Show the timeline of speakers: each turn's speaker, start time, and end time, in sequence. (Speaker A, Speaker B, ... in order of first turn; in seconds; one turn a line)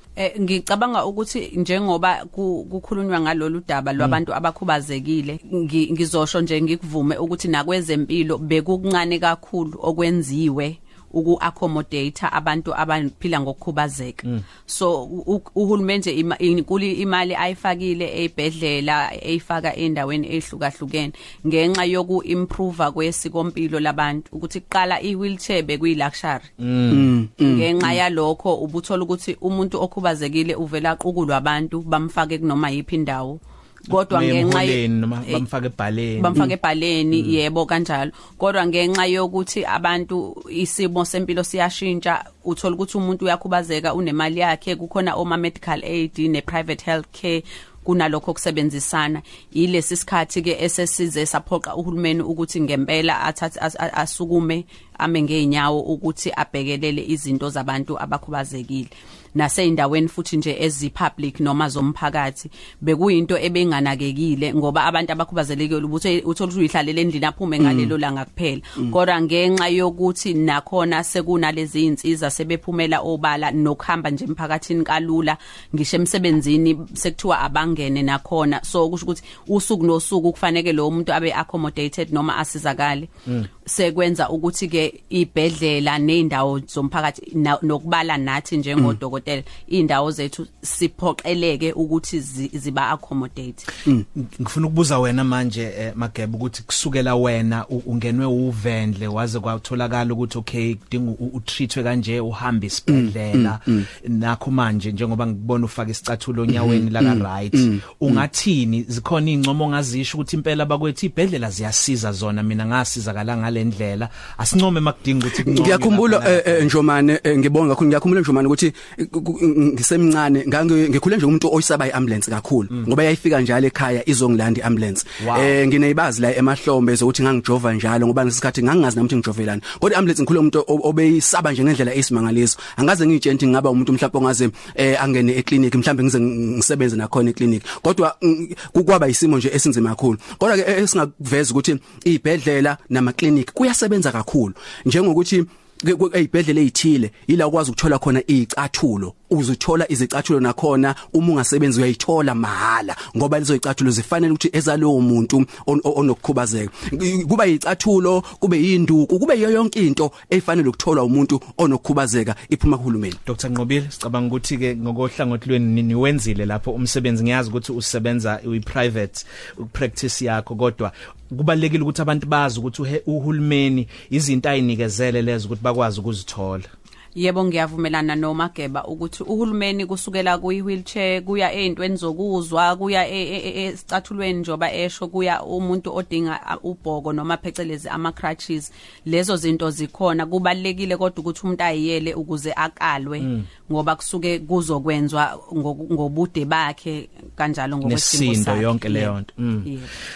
Speaker A: 0.2-26.5
Speaker B: 26.6-27.1
Speaker C: 26.9-28.0
Speaker A: 27.4-35.4
Speaker B: 33.9-36.5
Speaker A: 36.2-83.1
Speaker C: 67.6-67.9
Speaker A: 83.6-93.7
Speaker B: 94.2-116.7
Speaker C: 102.9-103.8
Speaker C: 106.5-108.2
Speaker C: 115.4-163.2
Speaker B: 125.2-125.6
Speaker B: 163.2-176.7
Speaker A: 177.2-199.9
Speaker B: 193.2-193.5
Speaker B: 197.8-199.7